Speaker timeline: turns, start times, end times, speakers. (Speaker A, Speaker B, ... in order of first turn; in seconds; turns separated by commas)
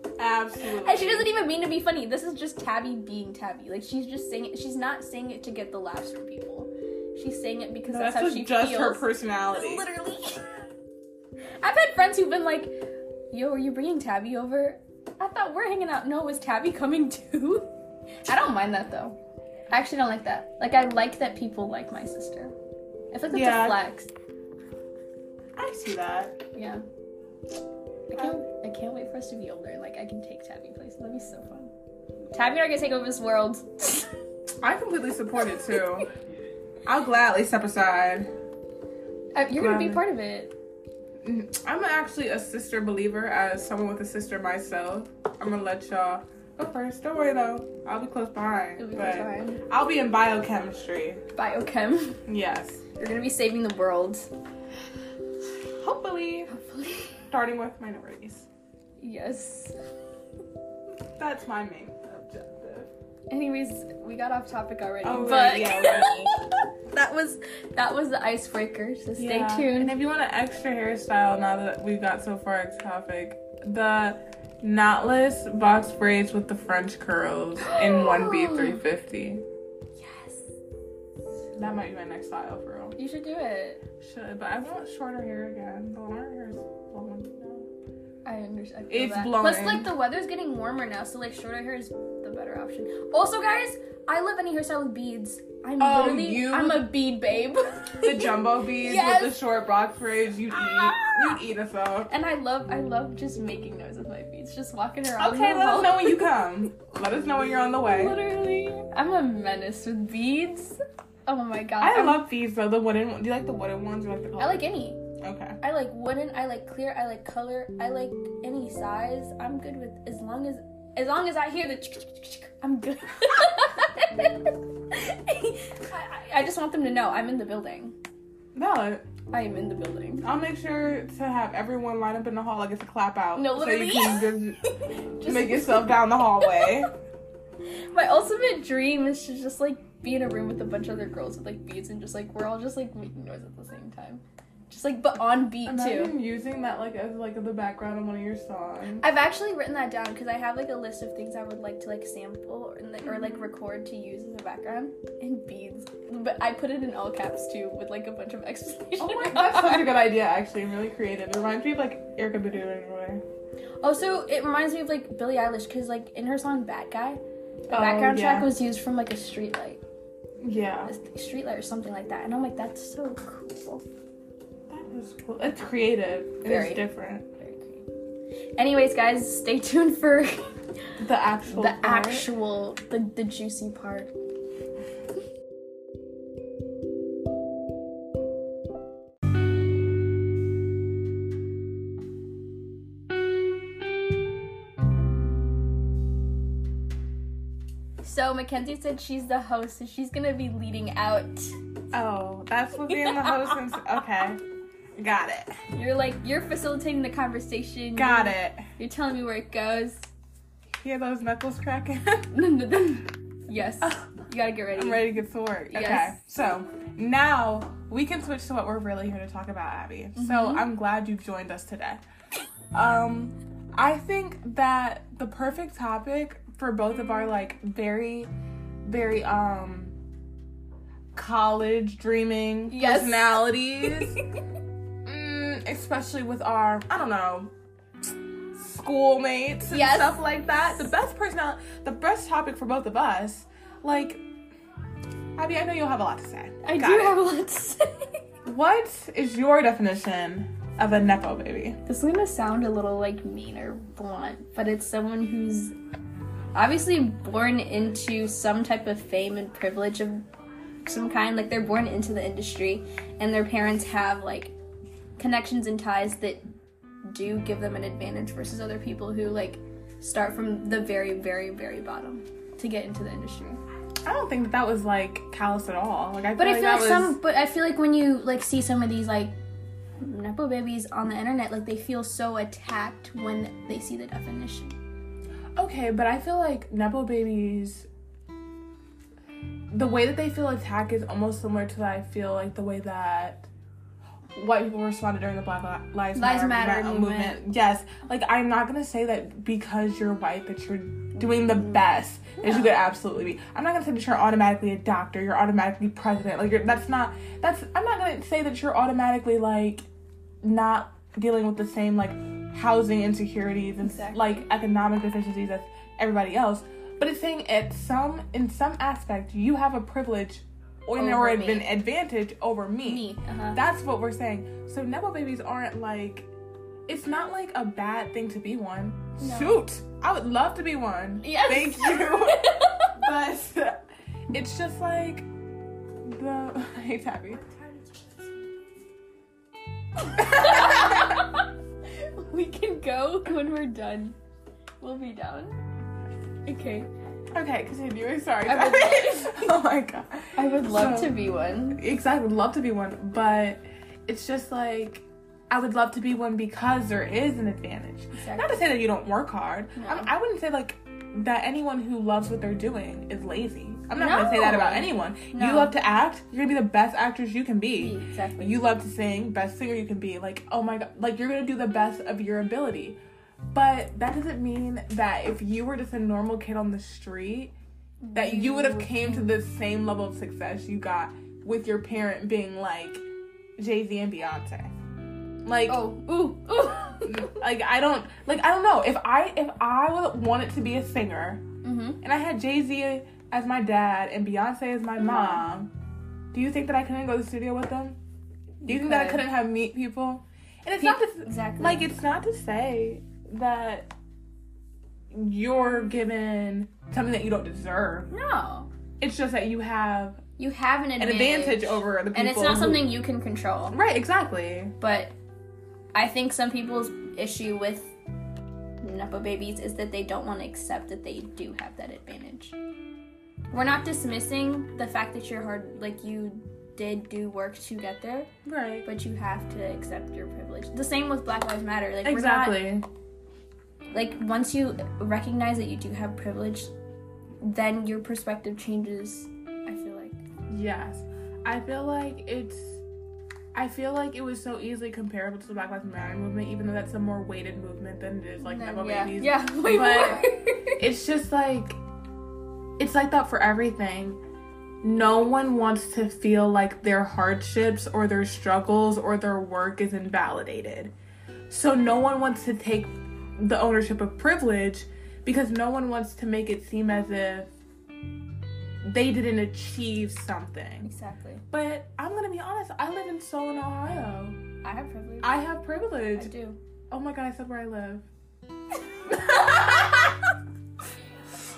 Speaker A: 0.2-1.3, Speaker B: 0.8-10.5, Speaker A: 7.9-9.9, Speaker B: 11.6-12.8, Speaker B: 13.3-17.7, Speaker B: 18.3-19.2, Speaker B: 19.7-22.6, Speaker B: 23.1-24.1, Speaker A: 23.3-23.8, Speaker A: 25.6-26.4, Speaker B: 26.5-26.8, Speaker B: 28.1-31.7, Speaker A: 28.2-28.4, Speaker B: 32.3-34.1, Speaker A: 34.6-36.1, Speaker A: 36.9-38.3, Speaker B: 39.4-40.5, Speaker A: 39.6-40.0, Speaker A: 41.2-51.2, Speaker B: 48.8-49.6, Speaker B: 51.4-52.2, Speaker A: 52.3-52.8, Speaker B: 53.0-54.3, Speaker A: 55.8-56.5, Speaker B: 56.5-57.2, Speaker A: 57.3-58.5, Speaker B: 59.0-59.8, Speaker A: 61.2-62.9, Speaker B: 63.3-70.0, Speaker A: 65.0-66.3, Speaker A: 69.2-79.4, Speaker B: 77.6-78.8, Speaker B: 80.0-80.5, Speaker A: 81.5-83.0, Speaker B: 83.0-83.8, Speaker A: 84.0-87.7, Speaker B: 88.2-99.5, Speaker A: 88.9-89.9, Speaker A: 95.8-97.0, Speaker A: 98.0-102.1, Speaker B: 100.5-101.4, Speaker B: 102.1-106.3, Speaker A: 105.2-108.2, Speaker B: 107.8-112.2, Speaker A: 111.8-115.6, Speaker B: 114.4-115.0, Speaker B: 115.6-128.0, Speaker A: 128.5-129.1, Speaker B: 129.3-130.3, Speaker A: 130.2-134.7, Speaker B: 133.4-136.8, Speaker A: 135.2-136.9, Speaker B: 137.7-146.2, Speaker A: 145.7-149.0, Speaker B: 149.0-160.0, Speaker A: 153.1-153.4, Speaker A: 159.0-163.2, Speaker B: 163.8-169.8, Speaker A: 167.7-168.5, Speaker A: 170.4-170.9, Speaker B: 170.9-173.8, Speaker A: 174.7-177.3, Speaker B: 176.5-176.8, Speaker B: 177.4-177.8, Speaker B: 178.6-180.5, Speaker A: 181.0-182.3, Speaker B: 181.5-184.1, Speaker B: 198.0-201.6, Speaker A: 201.9-204.4, Speaker B: 202.9-203.5, Speaker A: 205.0-205.6, Speaker B: 205.7-210.1, Speaker A: 208.0-208.7, Speaker A: 210.8-212.3, Speaker B: 212.3-215.2, Speaker A: 213.8-214.1, Speaker A: 214.8-222.0, Speaker B: 215.7-216.2, Speaker B: 220.2-220.7, Speaker A: 222.7-228.3, Speaker A: 228.8-229.9, Speaker A: 231.1-234.2, Speaker B: 232.7-234.1, Speaker A: 235.1-237.5, Speaker A: 238.5-244.2, Speaker B: 239.7-240.5, Speaker A: 245.4-247.2, Speaker B: 246.6-248.1, Speaker A: 248.4-251.8, Speaker B: 251.9-255.8, Speaker B: 256.5-260.2, Speaker B: 260.9-264.6, Speaker B: 265.2-266.4, Speaker B: 267.1-273.6, Speaker A: 274.1-277.2, Speaker B: 276.4-279.4, Speaker B: 280.0-284.8, Speaker A: 285.6-287.9, Speaker A: 289.7-293.5, Speaker A: 294.4-309.9, Speaker B: 296.1-297.4, Speaker B: 301.2-301.8, Speaker B: 302.4-302.7, Speaker A: 310.4-326.3, Speaker B: 313.8-314.4, Speaker B: 321.0-321.7, Speaker B: 322.8-323.6, Speaker A: 326.9-335.3, Speaker B: 329.2-329.6, Speaker B: 331.2-333.0, Speaker A: 336.1-337.5, Speaker B: 340.0-344.2, Speaker A: 340.1-341.2, Speaker B: 344.8-345.6, Speaker B: 346.5-346.9, Speaker A: 347.3-373.0, Speaker B: 348.4-349.5, Speaker B: 350.4-351.8, Speaker B: 358.1-358.6, Speaker B: 359.8-360.1, Speaker B: 364.0-365.7, Speaker B: 367.8-368.6, Speaker A: 373.5-377.5, Speaker B: 378.0-379.4, Speaker A: 378.1-383.0, Speaker A: 383.6-384.7, Speaker A: 385.4-385.9, Speaker B: 385.7-387.4, Speaker A: 387.0-391.4, Speaker B: 391.6-392.0, Speaker A: 392.0-395.7, Speaker B: 395.0-395.4, Speaker A: 396.3-398.0, Speaker B: 398.6-399.3, Speaker A: 398.6-403.9, Speaker B: 400.8-401.9, Speaker A: 405.1-408.1, Speaker B: 408.1-408.7, Speaker A: 409.0-410.2, Speaker B: 410.4-413.8, Speaker A: 411.0-413.0, Speaker A: 413.7-414.7, Speaker B: 414.8-415.1, Speaker B: 415.9-417.9, Speaker B: 418.8-422.6, Speaker B: 423.5-428.3, Speaker A: 428.4-428.9, Speaker B: 428.9-432.7, Speaker A: 432.0-432.9, Speaker B: 433.9-436.7, Speaker B: 437.4-440.2, Speaker A: 440.5-442.8, Speaker A: 443.5-451.8, Speaker B: 448.4-450.8, Speaker A: 452.8-454.2, Speaker A: 454.8-460.9, Speaker A: 461.5-467.5, Speaker A: 468.8-470.9, Speaker B: 470.8-471.4, Speaker A: 471.5-474.4, Speaker B: 474.6-475.3, Speaker A: 475.2-476.3, Speaker B: 476.2-476.6, Speaker A: 476.9-478.1, Speaker A: 479.1-480.1, Speaker B: 479.1-480.1